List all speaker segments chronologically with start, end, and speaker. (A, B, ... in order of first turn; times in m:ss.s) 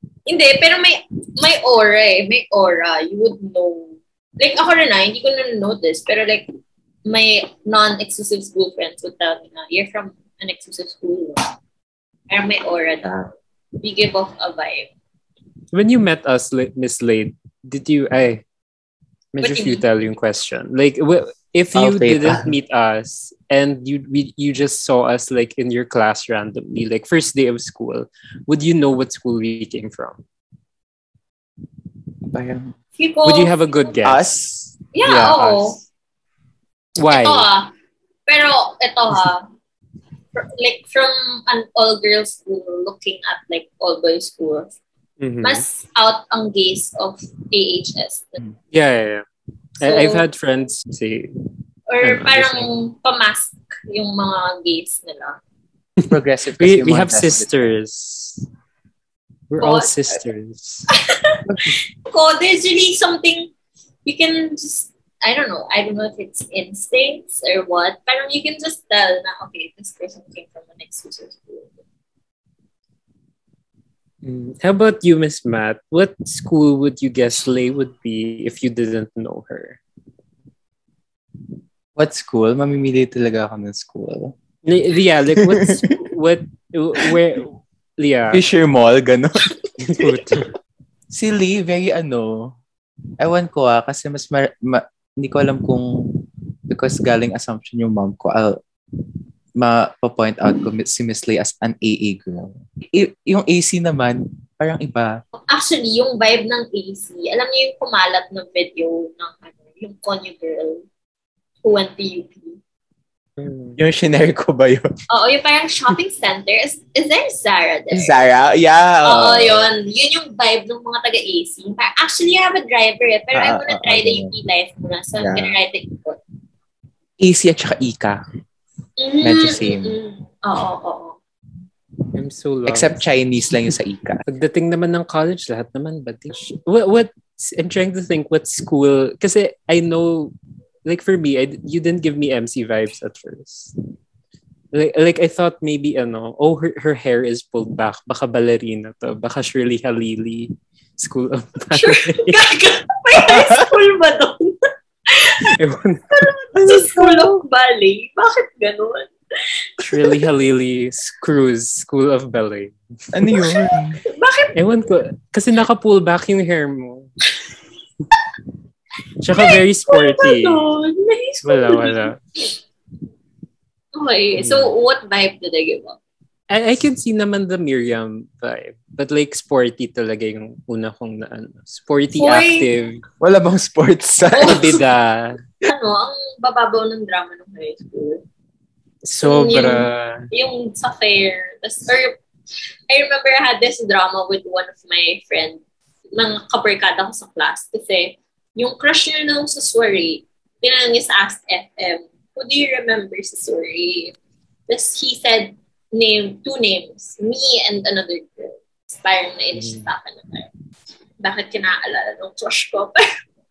0:00.2-0:06.5 A
0:07.0-0:11.5 A
0:12.3-0:13.1 A
0:13.0-0:13.3 B
0:13.8-0:14.9 A
0:15.7-0:18.4 C
0:19.3-0:30.2 C
0:19.4-0:19.8 A
0:21.7-0:22.5 B
0:32.3-0:32.7 B
0:33.0-0:34.0 A
0:33.2-0:34.2 C
0:34.0-0:34.7 B
0:34.9-0:35.8 A
0:35.0-0:35.8 C
0:37.0-0:37.5 C
0:37.1-0:37.7 A
0:38.3-0:39.5 A
0:40.3-0:44.8 A
0:45.2-0:45.6 C
0:45.4-0:48.4 A
0:48.7-0:49.2 C
0:49.8-0:50.2 A
0:49.8-0:51.3 C
0:51.9-0:55.4 A
0:52.0-0:52.7 C
0:56.0-0:58.5 C
0:56.1-0:57.7 B
0:59.5-1:00.9 C
0:59.6-1:00.1 A
1:00.9-1:03.5 A
1:04.0-1:11.8 A
1:14.2-1:19.8 C
1:22.0-1:24.4 B
1:24.6-1:28.4 C
1:25.4-1:25.9 B
1:28.3-1:30.5 B
1:29.8-1:30.5 C
1:31.1-1:32.6 B
1:33.2-1:38.6 B
1:39.6-1:45.2 B
1:45.4-1:50.8 A
1:51.6-1:52.6 A
1:53.8-1:54.9 B
1:55.1-1:58.2 A
1:57.9-1:59.7 B
1:59.0-2:06.2 A
2:03.3-2:04.3 B
2:05.2-2:05.5 B
2:07.2-2:08.2 B
2:09.0-2:11.2 A
2:09.2-2:10.0 B
2:12.1-2:13.1 C
2:12.6-2:14.2 B
2:14.2-2:20.3 C
2:20.8-2:23.7 C
2:24.7-2:32.4 C
2:31.7-2:35.6 A
2:33.2-2:33.6 B
2:35.5-2:36.1 C
2:36.1-2:40.2 A
2:36.5-2:37.4 B
2:39.8-2:42.7 C
2:43.1-2:44.0 B
2:43.3-2:44.6 A
2:44.5-2:47.1 C
2:49.2-2:50.6 C
2:49.3-2:52.5 A
2:51.4-2:52.2 C
2:53.9-2:56.0 A
2:54.4-2:54.7 C
2:56.5-3:03.0 C
3:02.1-3:02.7 A
3:03.2-3:04.8 B
3:04.3-3:04.8 A
3:04.4-3:05.4 C
3:05.6-3:08.2 A
3:09.0-3:10.3 C
3:09.2-3:12.2 A
3:12.9-3:15.6 A
3:16.1-3:24.1 A
3:24.7-3:30.5 A
3:31.2-3:33.1 A